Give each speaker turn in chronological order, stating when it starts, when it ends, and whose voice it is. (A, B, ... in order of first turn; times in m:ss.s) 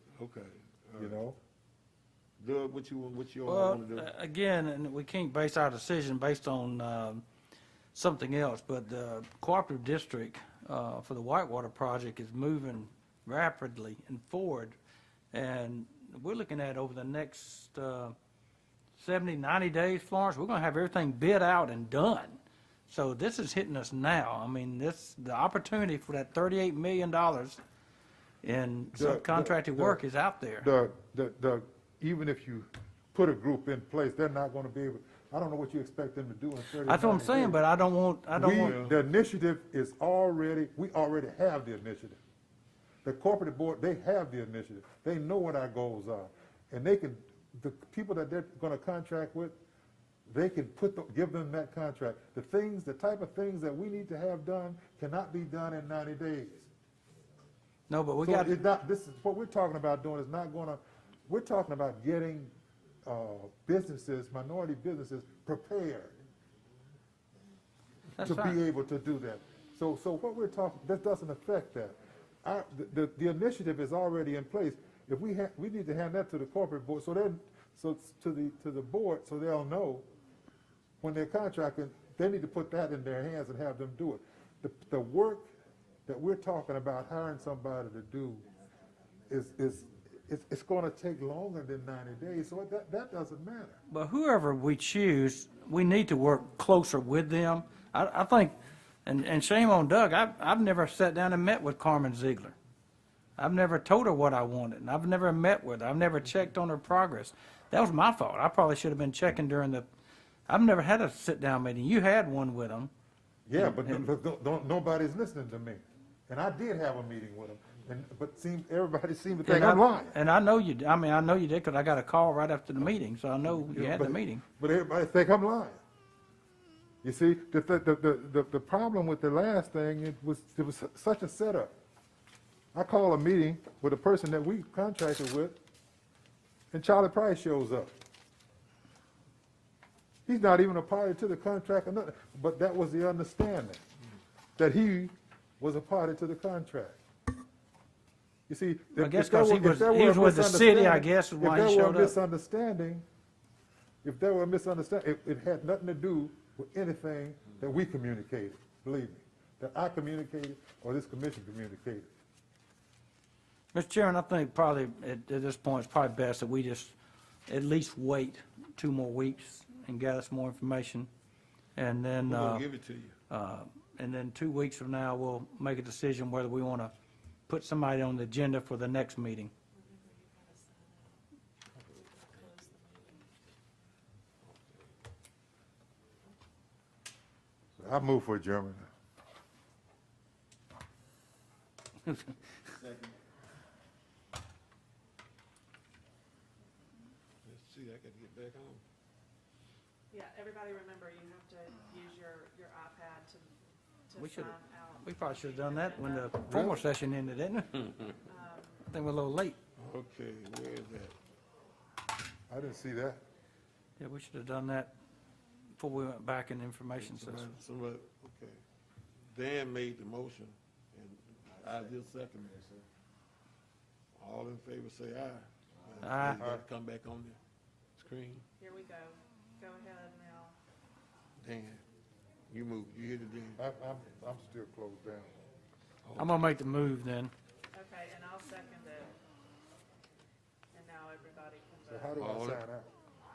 0:00.1-0:01.2 A
0:01.0-0:01.4 B
0:02.4-0:04.1 A
0:03.4-0:07.2 C
0:07.9-0:14.8 C
0:15.3-0:18.1 C
0:19.0-0:27.6 C
0:28.4-0:30.7 C
0:28.9-0:30.0 B
0:30.6-0:37.6 B
0:36.8-0:38.8 C
0:38.3-0:42.2 B
0:38.6-0:39.0 A
0:43.0-0:49.6 B
0:50.2-0:56.7 B
0:57.9-0:58.6 C
0:58.2-1:02.5 B
1:03.0-1:06.1 B
1:08.2-1:08.6 C
1:08.2-1:20.0 B
1:21.0-1:25.4 B
1:26.1-1:28.4 B
1:29.3-1:33.8 B
1:33.9-1:42.5 C
1:43.4-1:49.8 C
1:50.5-1:52.9 C
1:53.4-2:00.2 B
1:53.6-1:54.0 C
1:59.4-2:04.4 C
2:03.6-2:05.8 B
2:07.0-2:11.7 B
2:12.7-2:15.6 B
2:16.7-2:17.9 B
2:20.3-2:23.8 B
2:24.6-2:27.0 B
2:28.5-2:33.0 B
2:28.9-2:32.1 C
2:34.0-2:42.1 B
2:43.7-2:46.9 C
2:47.5-2:51.1 C
2:51.8-2:52.6 C
2:52.2-2:53.2 A
2:53.3-2:56.9 C
2:57.5-2:59.5 C
2:59.7-3:01.2 D
3:01.9-3:03.2 D
3:04.4-3:04.8 A
3:07.8-3:08.9 B
3:12.0-3:12.4 C
3:17.4-3:18.8 A
3:20.1-3:23.6 D
3:24.1-3:26.4 D
3:24.2-3:27.8 C
3:26.5-3:26.8 B
3:28.2-3:28.8 D
3:28.8-3:29.6 C
3:29.8-3:31.1 A
3:32.5-3:33.2 B
3:34.0-3:34.9 C
3:35.8-3:37.5 C
3:37.0-3:38.6 A
3:39.3-3:42.7 A
3:44.2-3:47.4 A
3:46.0-3:46.4 C
3:46.4-3:46.6 B
3:48.0-3:48.4 A
3:48.6-3:50.6 D
3:51.4-3:51.8 A
3:52.5-3:53.6 A
3:53.6-3:55.3 B
3:56.0-3:56.3 A
3:56.2-3:57.3 C
3:57.7-3:59.1 D
4:00.7-4:02.3 D
4:01.9-4:02.9 B
4:02.2-4:02.6 A